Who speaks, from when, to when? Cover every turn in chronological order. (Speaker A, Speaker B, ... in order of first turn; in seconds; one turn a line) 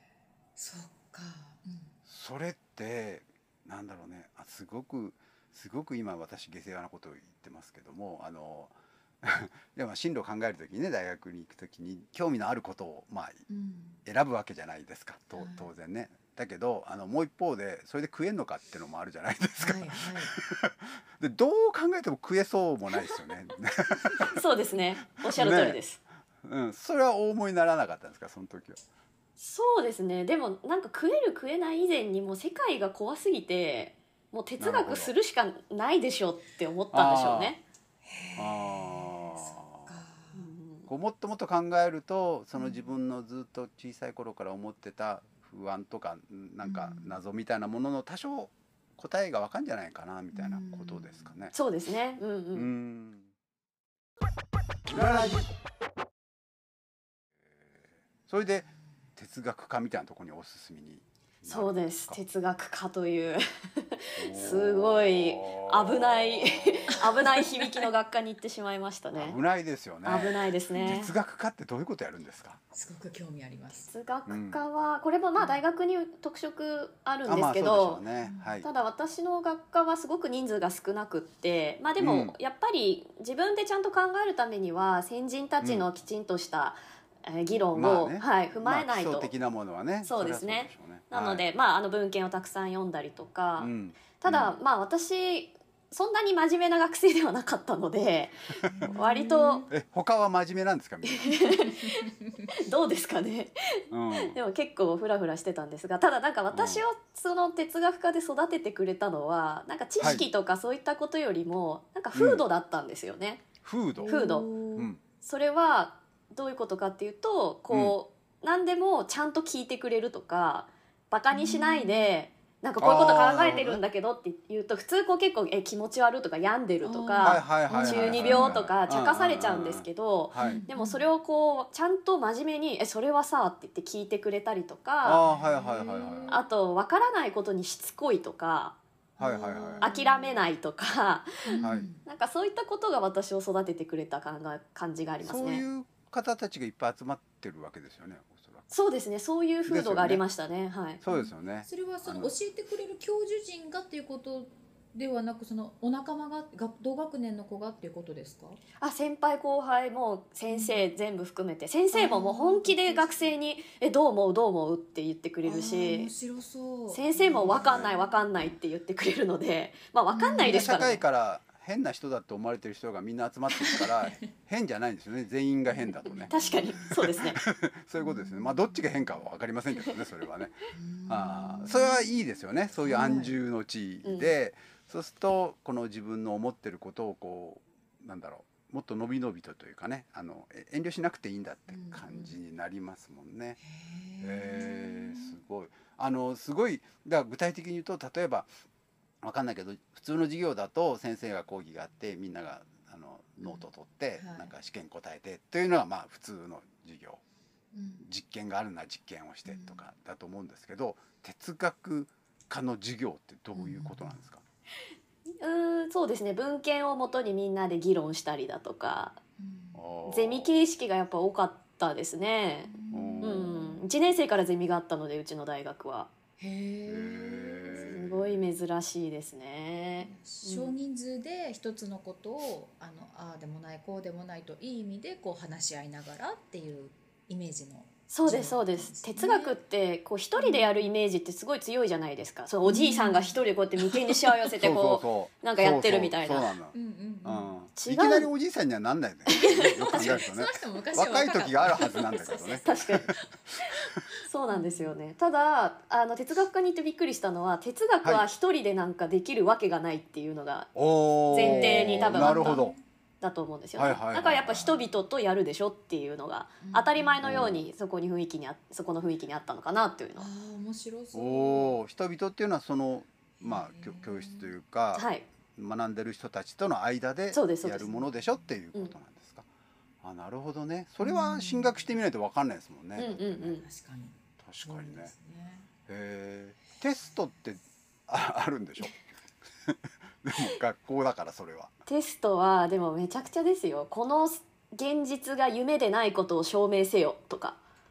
Speaker A: 0.6-1.9
Speaker B: 2.1-13.4
Speaker A: 13.5-14.0
Speaker B: 14.1-24.4
Speaker A: 15.3-15.7
Speaker A: 19.6-20.3
Speaker C: 24.3-26.0
Speaker B: 25.2-25.8
Speaker B: 26.4-28.8
Speaker C: 29.4-37.6
Speaker B: 34.6-35.1
Speaker B: 36.9-37.6
Speaker A: 38.0-40.5
Speaker B: 38.4-40.0
Speaker C: 40.3-40.9
Speaker B: 40.9-51.5
Speaker A: 42.6-42.9
Speaker A: 46.6-47.1
Speaker A: 50.3-51.4
Speaker C: 51.5-52.7
Speaker B: 52.5-53.3
Speaker B: 54.9-55.5
Speaker B: 58.3-62.2
Speaker C: 61.5-69.4
Speaker B: 64.2-67.2
Speaker A: 67.0-67.9
Speaker B: 69.1-72.6
Speaker C: 70.0-71.1
Speaker A: 70.7-71.1
Speaker A: 72.7-73.9
Speaker C: 73.8-78.0
Speaker B: 74.3-74.6
Speaker B: 77.2-78.7
Speaker A: 78.2-78.6
Speaker C: 78.6-89.3
Speaker B: 82.0-82.3
Speaker B: 87.7-91.4
Speaker C: 90.0-99.7
Speaker B: 93.6-94.5
Speaker B: 98.6-98.9
Speaker A: 98.7-99.7
Speaker B: 99.7-101.5
Speaker C: 101.1-103.5
Speaker A: 101.5-102.3
Speaker B: 103.9-104.4
Speaker C: 104.2-113.5
Speaker B: 106.5-106.8
Speaker B: 110.0-110.2
Speaker B: 112.1-112.4
Speaker B: 113.6-114.2
Speaker A: 114.0-114.9
Speaker C: 114.1-114.5
Speaker B: 114.8-115.0
Speaker C: 115.2-135.2
Speaker B: 117.7-118.0
Speaker A: 121.3-122.1
Speaker B: 122.8-123.8
Speaker A: 126.8-128.7
Speaker B: 127.2-130.7
Speaker A: 130.4-131.1
Speaker B: 135.0-136.4
Speaker A: 135.2-136.4
Speaker C: 136.3-138.8
Speaker A: 139.2-140.3
Speaker B: 139.2-139.9
Speaker C: 139.8-145.6
Speaker A: 141.5-142.0
Speaker B: 141.6-141.9
Speaker B: 145.2-148.7
Speaker C: 148.7-151.0
Speaker B: 149.7-150.2
Speaker B: 151.0-152.3
Speaker A: 151.1-158.6
Speaker C: 158.8-166.1
Speaker A: 160.5-160.9
Speaker A: 161.9-163.3
Speaker A: 165.4-168.2
Speaker C: 166.9-171.0
Speaker B: 167.5-167.9
Speaker A: 170.1-170.8
Speaker B: 170.4-176.3
Speaker A: 173.6-174.3
Speaker A: 175.8-176.9
Speaker C: 176.3-177.4
Speaker B: 177.0-193.6
Speaker A: 178.0-179.1
Speaker A: 180.7-182.2
Speaker A: 182.8-183.4
Speaker C: 184.0-184.3
Speaker A: 191.7-192.4
Speaker A: 193.6-195.4
Speaker B: 194.2-198.5
Speaker B: 199.2-207.2
Speaker A: 204.2-204.5
Speaker A: 207.7-208.1
Speaker B: 208.0-214.4
Speaker A: 209.5-209.8
Speaker A: 213.6-214.2
Speaker C: 215.4-219.2
Speaker A: 219.4-219.8
Speaker B: 219.7-220.6
Speaker C: 220.1-226.1
Speaker A: 222.7-223.9
Speaker B: 222.9-223.5
Speaker A: 226.4-227.9
Speaker B: 226.9-228.4
Speaker C: 227.7-230.8
Speaker A: 230.0-239.6
Speaker C: 238.1-246.5
Speaker A: 240.4-240.9
Speaker A: 242.7-244.5
Speaker B: 244.6-254.0
Speaker A: 246.7-247.6
Speaker C: 247.8-248.3
Speaker C: 249.3-250.1
Speaker A: 249.3-253.9
Speaker C: 252.7-253.1
Speaker C: 254.3-260.7
Speaker A: 254.5-255.0
Speaker B: 260.8-262.8
Speaker C: 261.3-262.6
Speaker A: 261.4-262.8
Speaker C: 263.2-270.3
Speaker B: 263.8-264.8
Speaker A: 266.6-267.4
Speaker B: 267.2-267.6
Speaker A: 270.2-271.8
Speaker B: 271.1-279.5
Speaker A: 273.4-274.5
Speaker C: 274.9-275.3
Speaker C: 277.3-278.0
Speaker B: 280.0-283.6
Speaker A: 281.0-281.9
Speaker C: 283.0-283.6
Speaker A: 283.6-285.7
Speaker B: 284.4-285.1
Speaker B: 285.9-289.0
Speaker B: 289.6-291.7
Speaker C: 291.9-297.6